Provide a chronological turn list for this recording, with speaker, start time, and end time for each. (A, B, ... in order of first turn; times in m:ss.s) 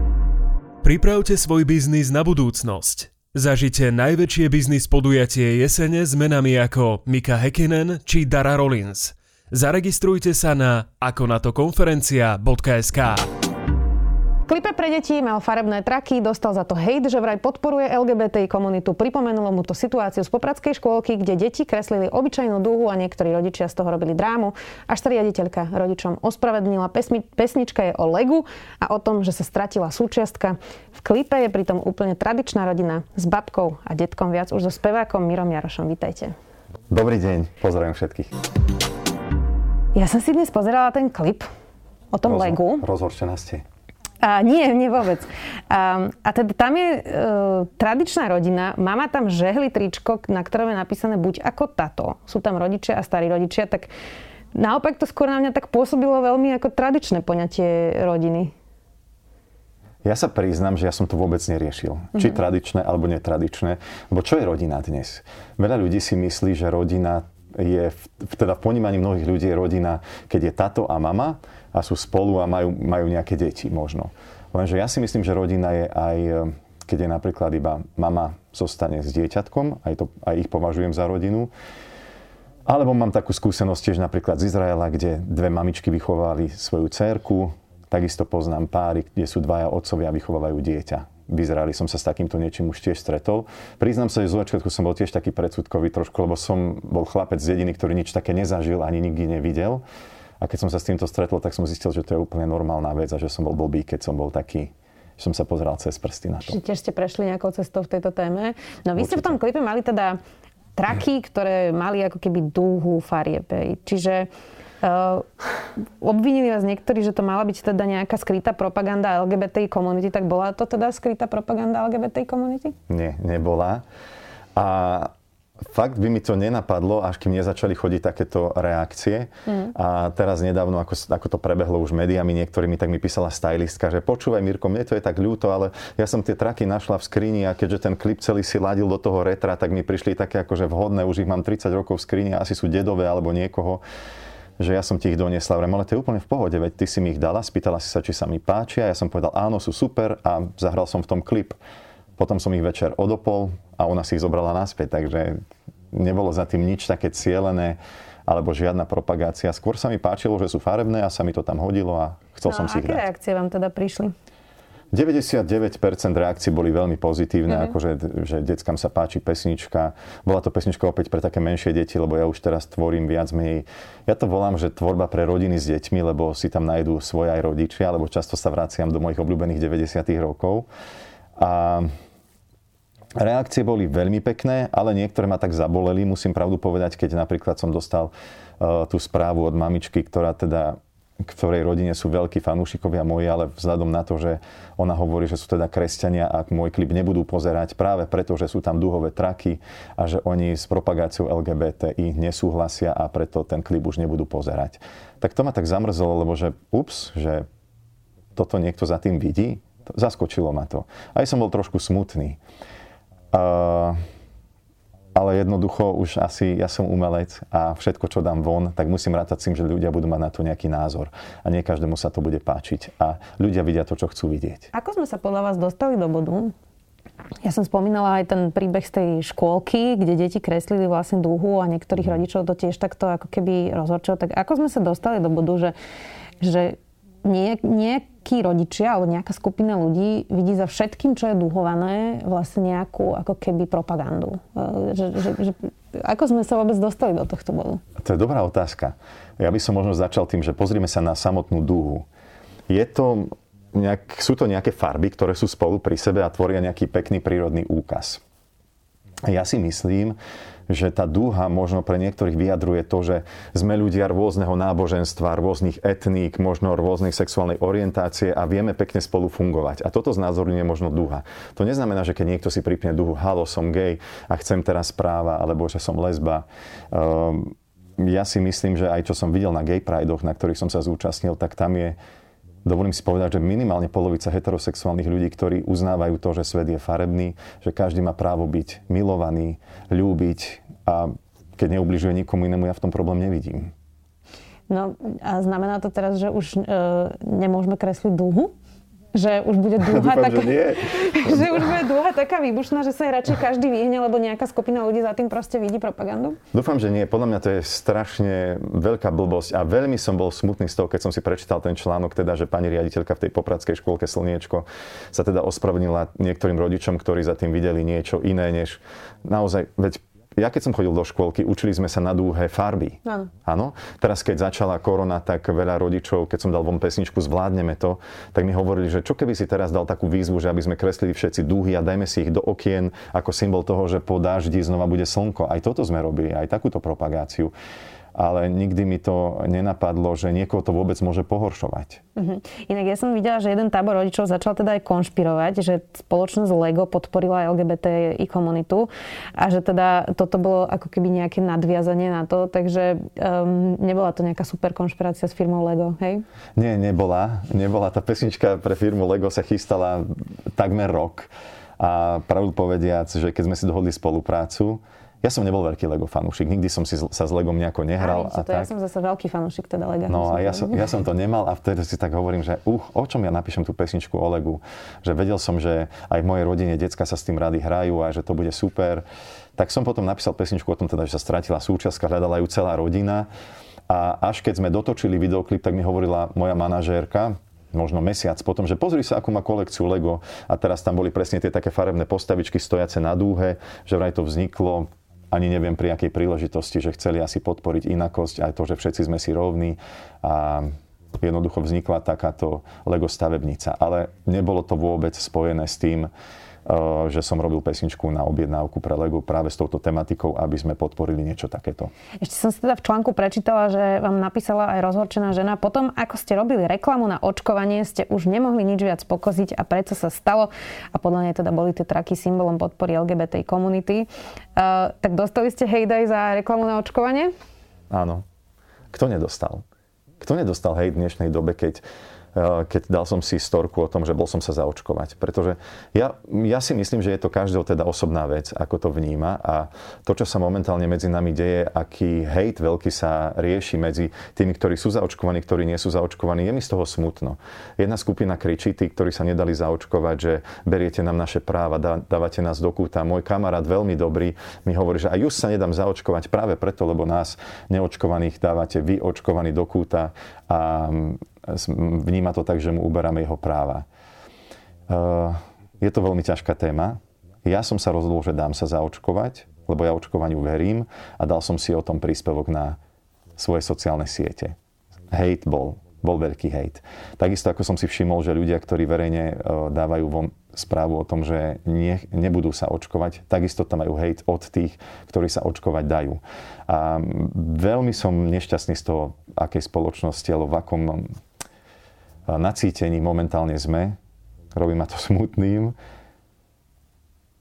0:00.8-0:13.2 A
0:14.4-0:36.3 B
0:36.9-0:38.3 C
0:39.9-0:41.5 B
0:42.1-0:42.8 B
0:42.2-0:43.6 C
0:44.2-0:53.9 B
0:54.5-0:58.5 B
1:00.0-1:21.5 C
1:22.6-1:39.8 C
1:40.4-1:46.6 C
1:46.5-1:50.2 B
1:49.0-1:49.4 C
1:50.8-1:54.3 B
1:54.8-1:55.2 B
1:56.0-2:02.7 B
2:02.9-2:03.8 C
2:04.6-2:05.1 C
2:05.7-2:23.8 C
2:09.5-2:09.7 B
2:24.6-2:31.6 C
2:32.2-2:35.4 C
2:35.9-2:43.1 C
2:42.4-2:44.1 B
2:44.9-3:00.7 C
3:01.4-3:01.9 C
3:03.2-3:27.4 C
3:28.3-3:32.4 C
3:33.3-3:34.0 C
3:35.1-3:44.7 C
3:44.7-3:46.5 B
3:47.4-3:55.7 B
3:56.4-4:07.8 B
4:08.0-4:12.0 C
4:12.7-4:18.2 C
4:19.3-4:20.2 C
4:20.7-4:42.0 C
4:42.6-4:53.7 C
4:54.7-4:58.5 B
4:59.1-5:06.4 B
4:59.8-5:01.6 C
5:06.5-5:37.5 C
5:38.1-5:42.0 C
5:42.2-5:56.2 B
5:56.6-6:08.7 C
6:08.0-6:10.8 B
6:10.1-6:19.0 C
6:19.6-6:23.3 C
6:23.9-6:46.1 C
6:46.6-6:51.9 C
6:52.2-7:07.3 B
7:07.9-7:08.2 C
7:08.9-7:09.6 C
7:10.2-7:11.8 C
7:12.3-7:43.8 C
7:44.9-7:52.8 C
7:53.4-7:54.5 C
7:55.1-8:11.1 C
8:12.3-8:14.0 C
8:14.6-8:15.7 C